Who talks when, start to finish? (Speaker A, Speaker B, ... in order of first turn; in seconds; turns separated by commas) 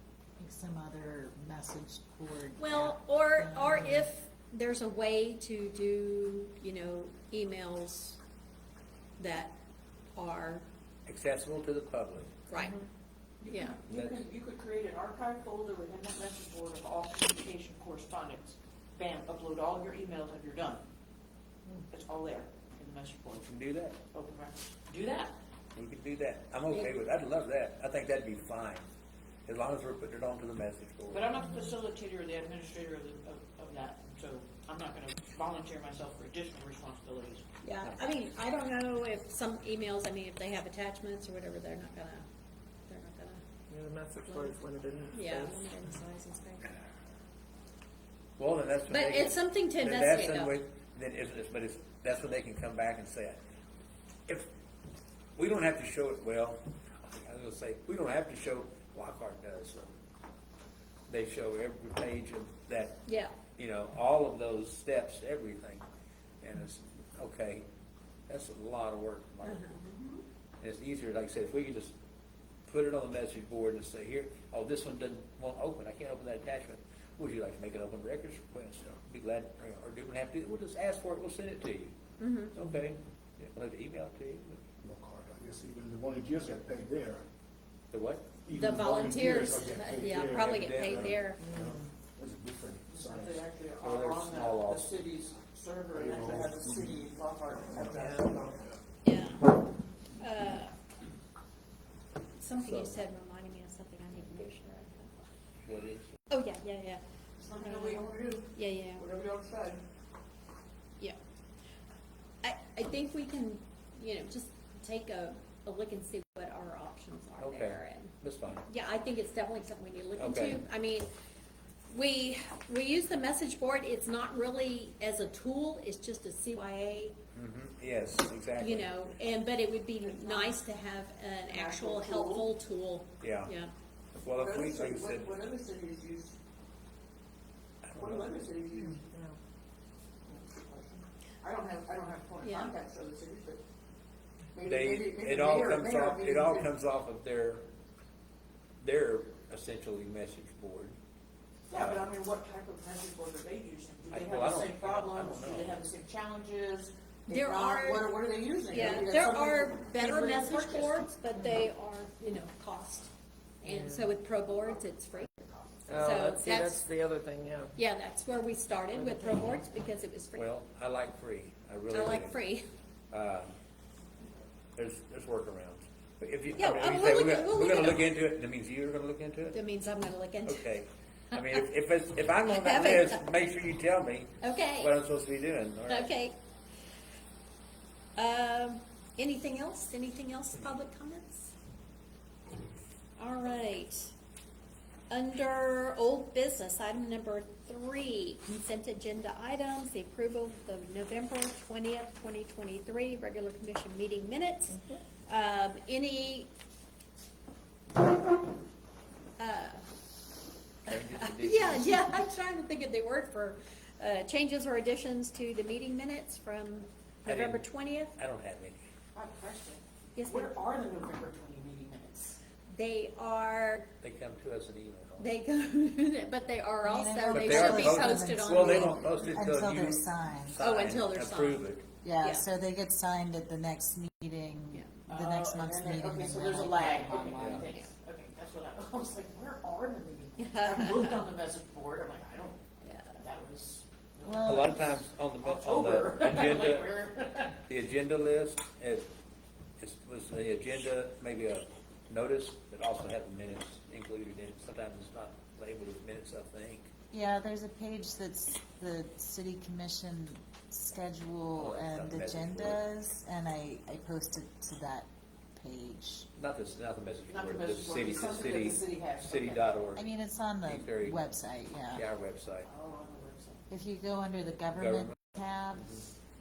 Speaker A: 0.4-4.1, Speaker B: 2.6-8.2, Speaker B: 9.2-9.6, Speaker B: 10.2-10.7, Speaker C: 11.1-12.4, Speaker B: 12.5-12.8, Speaker D: 13.4-20.9, Speaker B: 13.5-13.8, Speaker C: 13.9-14.3, Speaker D: 21.9-23.5, Speaker C: 23.4-24.0, Speaker D: 24.1-25.4, Speaker C: 25.8-28.9, Speaker C: 29.5-31.4, Speaker D: 31.1-37.5, Speaker B: 37.6-42.3, Speaker B: 42.9-43.4, Speaker E: 43.7-45.7, Speaker B: 44.2-46.8, Speaker C: 48.4-53.4, Speaker B: 48.9-50.6, Speaker C: 55.4-60.0, Speaker C: 61.1-63.0, Speaker B: 63.1-63.4, Speaker C: 63.6-65.8, Speaker C: 66.4-67.7, Speaker C: 68.3-69.8, Speaker B: 69.4-69.8, Speaker C: 70.6-72.0, Speaker C: 72.7-82.0, Speaker B: 82.2-82.5, Speaker C: 82.5-84.6, Speaker F: 84.8-87.2, Speaker C: 87.9-88.3, Speaker F: 88.4-93.4, Speaker B: 88.5-91.4, Speaker C: 90.3-91.2, Speaker E: 91.4-91.8, Speaker D: 92.9-98.7, Speaker C: 93.8-95.0, Speaker F: 95.9-97.1, Speaker F: 97.7-98.1, Speaker E: 97.9-98.4, Speaker B: 99.0-99.5, Speaker B: 100.2-100.7, Speaker B: 102.4-105.2, Speaker C: 102.6-103.0, Speaker C: 104.2-104.5, Speaker C: 105.6-106.1, Speaker B: 106.3-107.0, Speaker D: 107.4-109.8, Speaker B: 107.6-109.0, Speaker B: 112.4-118.1, Speaker C: 117.4-118.7, Speaker B: 118.7-121.1, Speaker C: 120.2-120.6, Speaker B: 121.9-127.2, Speaker C: 127.3-128.9, Speaker B: 128.6-133.7, Speaker D: 130.0-130.6, Speaker D: 131.5-132.5, Speaker C: 133.2-133.5, Speaker C: 134.2-135.4, Speaker D: 134.4-136.4, Speaker C: 137.8-138.3, Speaker D: 138.0-139.0, Speaker E: 138.8-139.4, Speaker D: 140.2-143.6, Speaker B: 142.4-142.7, Speaker D: 144.5-146.7, Speaker C: 144.7-147.7, Speaker C: 148.8-151.0, Speaker D: 151.7-161.0, Speaker C: 151.7-152.1, Speaker C: 154.1-155.8, Speaker B: 157.3-158.1, Speaker B: 158.7-163.1, Speaker B: 163.6-166.9, Speaker E: 163.6-164.2, Speaker E: 165.9-167.7, Speaker B: 167.8-170.5, Speaker E: 168.9-169.6, Speaker C: 170.4-172.4, Speaker B: 171.9-172.7, Speaker C: 173.1-173.6, Speaker C: 174.8-179.6, Speaker B: 176.6-178.1, Speaker B: 179.5-180.7, Speaker C: 180.4-186.1, Speaker B: 182.5-183.2, Speaker B: 184.4-184.9, Speaker B: 185.9-186.4, Speaker B: 188.2-191.5, Speaker B: 193.2-194.1, Speaker B: 195.1-206.5, Speaker B: 209.4-209.8, Speaker C: 210.9-212.2, Speaker B: 211.2-218.1, Speaker C: 217.2-218.8, Speaker D: 219.1-222.4, Speaker B: 220.2-220.5, Speaker B: 222.7-223.9, Speaker C: 224.0-225.3, Speaker B: 225.2-229.2, Speaker A: 226.8-230.8, Speaker C: 227.3-231.9, Speaker B: 230.6-231.7, Speaker A: 232.0-237.9, Speaker D: 235.1-242.6, Speaker C: 237.3-237.7, Speaker B: 240.4-241.3, Speaker B: 242.8-243.2, Speaker D: 243.2-247.6, Speaker A: 244.2-244.8, Speaker C: 244.4-247.0, Speaker C: 247.7-249.1, Speaker C: 249.8-256.9, Speaker A: 257.1-266.3, Speaker C: 261.6-262.8, Speaker C: 266.4-270.1, Speaker D: 267.3-269.8, Speaker A: 269.9-272.0, Speaker C: 270.6-271.3, Speaker C: 271.9-272.7, Speaker D: 272.6-273.6, Speaker A: 273.7-275.9, Speaker C: 274.7-275.2, Speaker C: 275.8-276.1